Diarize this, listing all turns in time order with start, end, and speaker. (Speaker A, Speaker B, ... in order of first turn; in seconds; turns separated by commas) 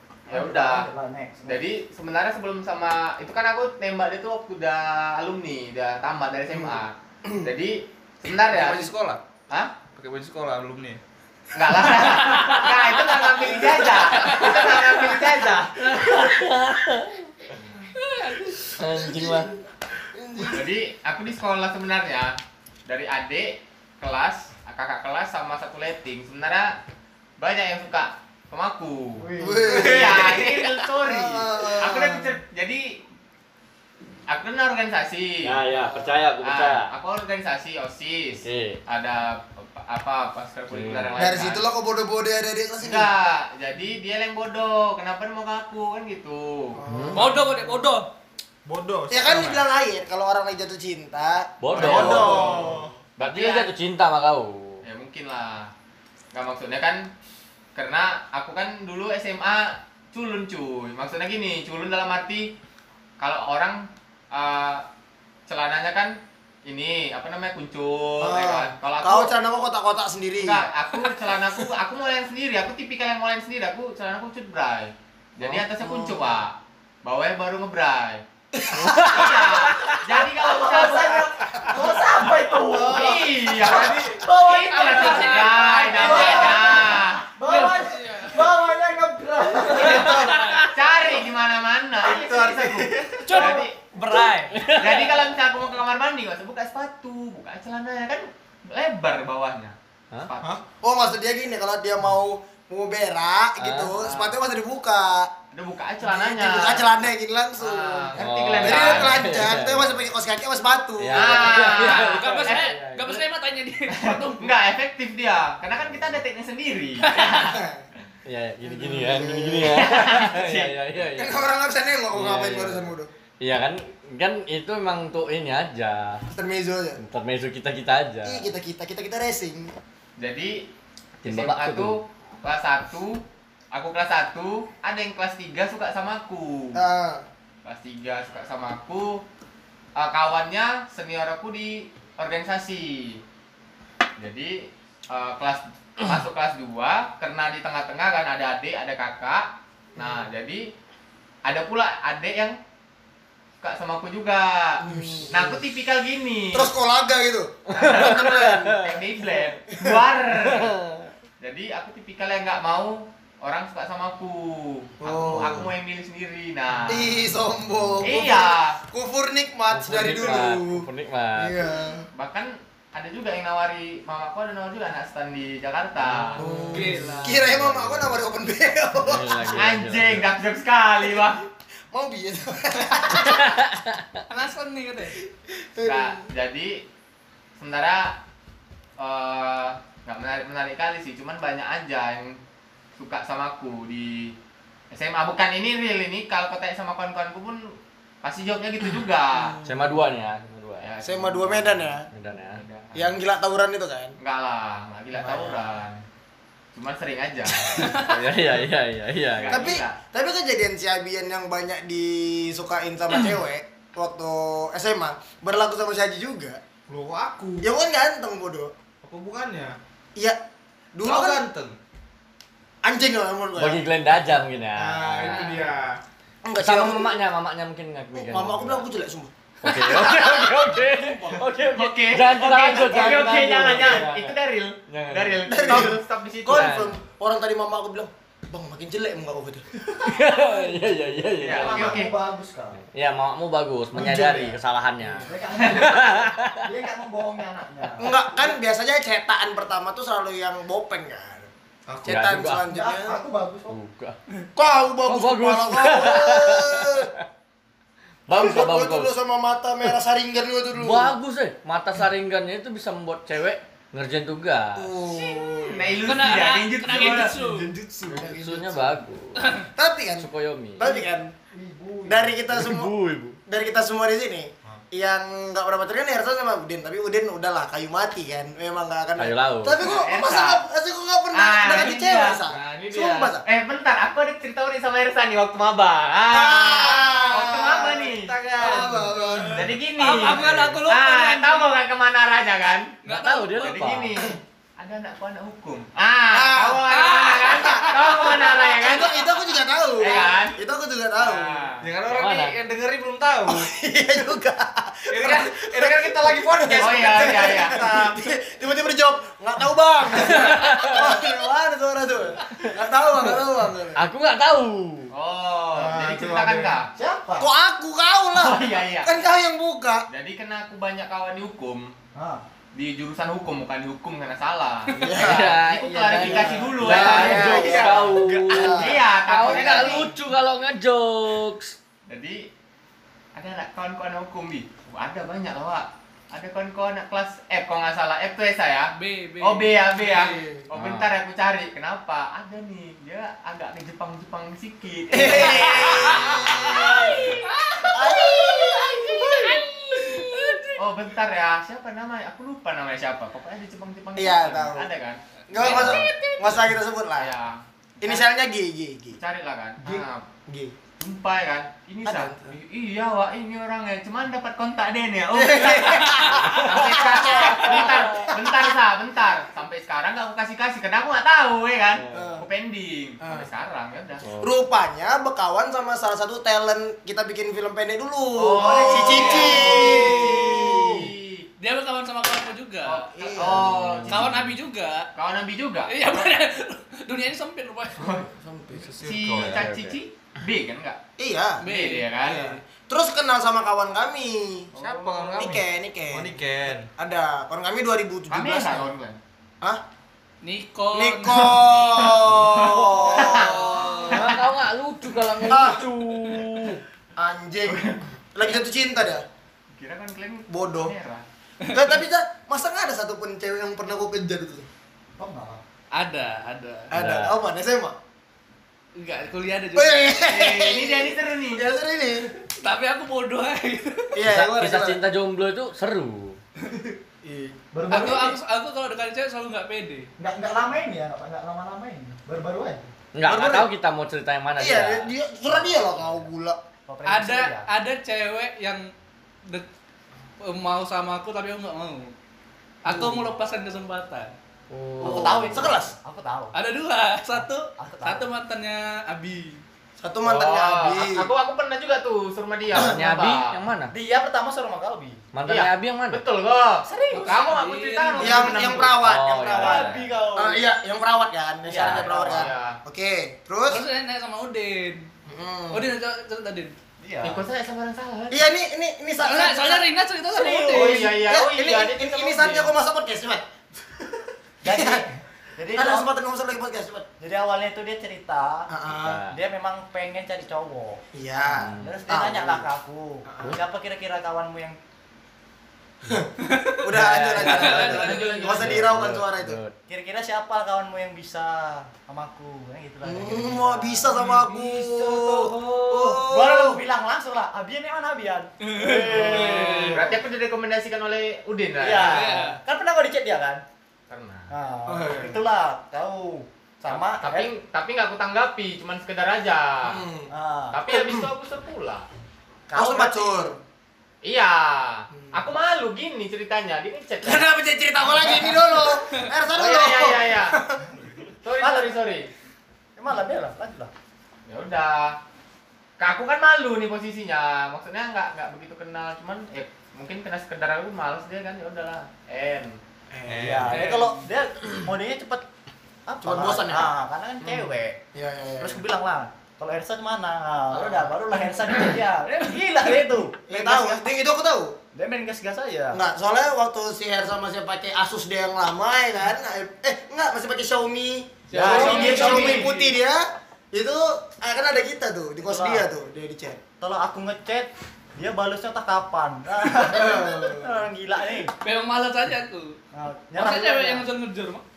Speaker A: 0.3-0.9, Speaker B: 0.3-1.6, Speaker A: 1.4-8.9, Speaker C: 6.5-7.5, Speaker D: 8.5-9.2, Speaker D: 9.9-11.0, Speaker A: 11.5-15.7, Speaker E: 12.3-12.7, Speaker E: 14.1-14.7, Speaker F: 15.8-17.2, Speaker E: 18.0-18.6, Speaker F: 18.7-19.5, Speaker C: 18.9-20.7, Speaker A: 20.5-22.3, Speaker A: 22.9-26.8, Speaker A: 27.4-32.9, Speaker B: 29.2-30.3, Speaker C: 29.4-30.4, Speaker C: 31.0-32.4, Speaker A: 34.3-35.5, Speaker F: 35.4-36.9, Speaker A: 36.4-41.7, Speaker F: 38.4-38.8, Speaker F: 40.7-41.1, Speaker C: 41.1-43.1, Speaker A: 42.8-46.8, Speaker C: 46.8-47.5, Speaker F: 46.9-47.2, Speaker E: 47.1-48.1, Speaker D: 48.6-49.6, Speaker C: 49.1-52.9, Speaker F: 51.6-52.5, Speaker A: 51.7-53.7, Speaker D: 51.8-52.9, Speaker F: 53.2-54.8, Speaker A: 54.8-55.7, Speaker A: 56.3-57.1, Speaker A: 57.8-62.5, Speaker A: 63.2-64.8, Speaker A: 65.5-69.3, Speaker C: 68.2-70.7, Speaker A: 70.4-78.2, Speaker C: 75.4-76.4, Speaker C: 78.5-79.5, Speaker F: 78.7-79.7, Speaker A: 79.0-81.2, Speaker B: 80.4-90.4, Speaker C: 81.5-81.9, Speaker C: 82.8-84.0, Speaker A: 82.8-87.2, Speaker E: 84.5-88.5, Speaker E: 89.7-90.7, Speaker C: 89.8-90.3, Speaker A: 89.8-93.8, Speaker D: 92.4-93.3, Speaker E: 93.2-94.8, Speaker F: 94.5-95.1, Speaker A: 94.7-100.5, Speaker C: 100.8-105.3, Speaker F: 103.6-104.0, Speaker A: 104.0-104.3, Speaker A: 105.5-106.8, Speaker C: 106.0-111.6, Speaker A: 107.6-109.2, Speaker F: 108.2-110.0, Speaker F: 111.0-113.2, Speaker A: 111.1-112.7, Speaker E: 111.6-114.5, Speaker A: 113.9-117.4, Speaker E: 117.0-117.6, Speaker C: 117.3-117.8, Speaker F: 118.2-121.5, Speaker C: 118.6-119.8, Speaker A: 119.7-120.7, Speaker C: 121.2-123.1, Speaker F: 122.1-126.2, Speaker C: 126.3-127.0, Speaker F: 127.0-128.5, Speaker C: 128.2-129.7, Speaker A: 130.2-130.7, Speaker A: 131.2-136.8, Speaker F: 131.2-131.9, Speaker C: 136.7-137.2, Speaker A: 137.6-139.2, Speaker A: 139.9-143.2, Speaker A: 144.2-150.6, Speaker C: 149.9-150.2, Speaker A: 151.4-152.6, Speaker A: 153.6-156.7, Speaker C: 154.8-155.6, Speaker C: 156.5-158.8, Speaker F: 157.7-159.0, Speaker A: 157.7-160.7, Speaker F: 160.5-161.1, Speaker A: 161.4-167.2, Speaker C: 165.0-165.7, Speaker C: 166.8-172.1, Speaker A: 168.0-168.8, Speaker F: 169.7-171.6, Speaker A: 172.1-176.4, Speaker F: 176.2-178.2, Speaker C: 176.3-179.6, Speaker E: 176.7-177.4, Speaker F: 179.0-180.2, Speaker A: 179.5-181.4, Speaker C: 181.9-183.5, Speaker F: 183.1-184.2, Speaker E: 184.3-185.2, Speaker C: 185.7-186.2, Speaker A: 185.8-186.8, Speaker A: 187.6-188.2, Speaker A: 189.0-192.4, Speaker A: 193.0-194.3, Speaker A: 194.9-199.6, Speaker F: 199.6-200.9, Speaker A: 200.8-203.2, Speaker C: 201.0-202.1, Speaker F: 202.1-202.6, Speaker C: 202.9-204.2, Speaker A: 204.2-206.0, Speaker C: 205.2-205.6, Speaker A: 206.7-208.0, Speaker E: 207.7-208.1, Speaker F: 207.8-209.6, Speaker A: 209.3-210.0, Speaker C: 209.5-216.6, Speaker D: 216.9-217.7, Speaker C: 217.6-218.7, Speaker D: 219.0-219.8, Speaker C: 220.9-221.4, Speaker D: 221.0-221.8, Speaker C: 222.8-223.8, Speaker F: 223.6-225.5, Speaker D: 224.8-226.0, Speaker E: 225.3-225.6, Speaker C: 226.4-227.2, Speaker F: 226.6-228.8, Speaker C: 228.1-231.2, Speaker F: 229.6-234.3, Speaker A: 231.7-236.8, Speaker F: 234.9-235.9, Speaker C: 235.4-240.1, Speaker F: 236.5-236.9, Speaker F: 240.0-242.0, Speaker A: 241.4-242.1, Speaker B: 241.5-242.8, Speaker F: 242.9-246.6, Speaker B: 243.9-244.5, Speaker C: 244.0-244.2, Speaker B: 245.1-248.5, Speaker C: 248.0-253.2, Speaker F: 252.1-252.6, Speaker B: 252.7-253.8, Speaker F: 253.7-254.1, Speaker C: 254.6-257.1, Speaker F: 255.0-257.1, Speaker F: 258.3-259.1, Speaker C: 258.3-261.1, Speaker F: 260.8-265.0, Speaker C: 264.8-266.2, Speaker A: 265.6-267.3, Speaker E: 266.0-267.7, Speaker C: 267.4-269.0, Speaker F: 268.1-269.6, Speaker E: 269.4-269.7, Speaker C: 269.8-271.3, Speaker F: 270.2-270.9, Speaker B: 271.5-272.4, Speaker C: 272.1-272.9, Speaker F: 272.5-273.4, Speaker C: 273.5-283.4, Speaker F: 279.2-279.8, Speaker A: 279.8-280.6, Speaker A: 281.3-288.9, Speaker C: 286.3-289.7, Speaker E: 288.7-291.7, Speaker A: 289.5-292.9, Speaker C: 290.3-290.6, Speaker E: 293.0-293.9, Speaker F: 293.1-294.1, Speaker A: 293.6-299.3, Speaker C: 296.3-296.8, Speaker E: 296.9-298.6, Speaker C: 297.5-301.7, Speaker A: 300.0-300.6, Speaker A: 301.1-301.8, Speaker D: 301.8-303.7, Speaker F: 302.1-302.5, Speaker C: 303.5-314.0, Speaker D: 305.1-307.6, Speaker A: 306.7-307.8, Speaker F: 310.3-311.0, Speaker F: 313.9-315.1, Speaker A: 315.1-316.9, Speaker C: 315.8-316.7, Speaker B: 316.9-317.5, Speaker C: 317.4-320.0, Speaker A: 318.3-319.1, Speaker A: 320.1-321.9, Speaker B: 322.1-322.4, Speaker A: 322.7-330.1, Speaker C: 324.9-325.6, Speaker F: 325.1-331.8, Speaker C: 326.1-330.1, Speaker A: 332.1-332.5, Speaker A: 333.3-347.5, Speaker E: 338.9-340.4, Speaker F: 340.7-341.1, Speaker C: 345.1-350.6, Speaker E: 345.2-350.8, Speaker A: 350.8-356.1, Speaker C: 354.1-354.9, Speaker C: 355.5-357.3, Speaker E: 355.5-356.6, Speaker A: 357.1-358.3, Speaker C: 358.0-359.2, Speaker A: 359.2-360.2, Speaker C: 359.8-360.7, Speaker A: 361.0-374.2, Speaker C: 362.0-362.5, Speaker C: 365.3-368.7, Speaker F: 372.0-372.3, Speaker C: 372.1-372.5, Speaker C: 373.2-373.5, Speaker F: 374.2-374.5, Speaker C: 374.4-381.1, Speaker A: 378.4-381.5, Speaker E: 379.0-380.5, Speaker E: 381.6-383.1, Speaker A: 382.8-384.4, Speaker C: 383.1-384.3, Speaker E: 384.1-385.1, Speaker A: 385.1-385.9, Speaker E: 385.9-388.1, Speaker A: 388.0-388.2, Speaker C: 388.2-388.9, Speaker D: 388.7-389.7, Speaker A: 389.0-391.0, Speaker F: 389.2-390.0, Speaker C: 391.2-391.6, Speaker E: 391.6-392.6, Speaker A: 391.6-392.5, Speaker C: 392.3-394.7, Speaker A: 394.7-395.6, Speaker D: 394.8-396.9, Speaker C: 395.4-396.4, Speaker C: 396.9-398.9, Speaker A: 398.3-399.2, Speaker E: 400.4-402.3, Speaker C: 400.9-404.3, Speaker A: 402.3-404.1, Speaker E: 403.3-404.2, Speaker F: 404.0-406.8, Speaker C: 405.4-405.8, Speaker C: 407.2-409.2, Speaker A: 407.7-408.0, Speaker A: 409.7-411.2, Speaker C: 410.5-410.9, Speaker C: 411.7-414.7, Speaker B: 415.2-415.6, Speaker E: 415.9-416.9, Speaker C: 416.9-417.9, Speaker F: 416.9-417.4, Speaker E: 418.9-420.2, Speaker C: 419.7-422.3, Speaker A: 420.3-421.6, Speaker E: 422.6-424.2, Speaker C: 424.1-425.0, Speaker F: 424.2-426.4, Speaker C: 427.2-427.5, Speaker B: 427.7-428.4, Speaker E: 427.9-430.1, Speaker B: 430.2-432.9, Speaker F: 433.1-435.1, Speaker C: 433.2-433.7, Speaker C: 434.6-436.6, Speaker B: 435.5-436.1, Speaker B: 436.9-437.7, Speaker E: 437.0-438.9, Speaker E: 440.4-442.1, Speaker E: 442.8-444.3, Speaker C: 442.9-443.2, Speaker F: 444.7-445.7, Speaker C: 445.0-445.9, Speaker B: 445.0-446.5, Speaker E: 446.5-449.6, Speaker B: 447.4-448.3, Speaker C: 450.0-451.3, Speaker A: 450.2-453.4, Speaker F: 452.7-453.9, Speaker B: 453.9-455.2, Speaker F: 455.3-456.2, Speaker A: 455.5-459.0, Speaker B: 456.9-457.5, Speaker E: 457.1-458.7, Speaker C: 458.2-463.8, Speaker F: 459.0-460.1, Speaker B: 459.5-460.6, Speaker B: 461.6-462.5, Speaker A: 461.8-462.8, Speaker E: 463.7-465.1, Speaker C: 465.3-465.9, Speaker E: 465.7-466.7, Speaker B: 467.0-467.4, Speaker A: 467.2-468.4, Speaker C: 468.3-473.4, Speaker E: 469.2-471.1, Speaker A: 470.6-472.7, Speaker B: 474.6-476.1, Speaker C: 474.6-475.0, Speaker C: 475.7-477.1, Speaker B: 477.2-478.7, Speaker C: 478.7-479.2, Speaker F: 478.9-479.4, Speaker B: 479.3-481.0, Speaker C: 481.1-482.7, Speaker F: 481.5-481.9, Speaker B: 481.7-484.8, Speaker C: 483.2-483.6, Speaker E: 486.4-488.8, Speaker C: 486.8-489.6, Speaker F: 486.9-489.7, Speaker B: 489.9-500.1, Speaker C: 493.0-496.8, Speaker E: 498.6-500.1, Speaker C: 499.1-500.0, Speaker A: 499.9-502.3, Speaker B: 501.8-503.6, Speaker E: 501.9-502.6, Speaker A: 504.1-504.5, Speaker B: 504.5-507.5, Speaker C: 504.9-505.4, Speaker A: 506.9-510.0, Speaker C: 509.8-510.3, Speaker B: 510.3-510.8, Speaker A: 510.7-512.0, Speaker C: 510.9-511.3, Speaker B: 512.7-513.5, Speaker C: 512.7-513.5, Speaker A: 514.2-517.5, Speaker C: 515.1-515.5, Speaker C: 517.2-520.9, Speaker A: 519.5-520.5, Speaker A: 521.4-522.3, Speaker B: 521.6-521.9, Speaker B: 523.0-523.9, Speaker A: 524.5-525.1, Speaker A: 526.0-532.8, Speaker C: 533.1-533.7, Speaker D: 533.3-534.0, Speaker B: 533.4-535.4, Speaker E: 533.7-534.3, Speaker B: 536.1-538.0, Speaker C: 536.2-538.8, Speaker B: 538.6-544.0, Speaker C: 540.7-541.1, Speaker C: 543.4-544.8, Speaker B: 544.9-546.0, Speaker C: 545.9-556.6, Speaker B: 551.5-552.7, Speaker A: 551.5-552.7, Speaker E: 551.7-552.8, Speaker B: 555.4-555.9, Speaker B: 556.8-561.5, Speaker C: 559.9-560.8, Speaker E: 561.6-562.7, Speaker B: 562.9-564.0, Speaker E: 563.3-564.6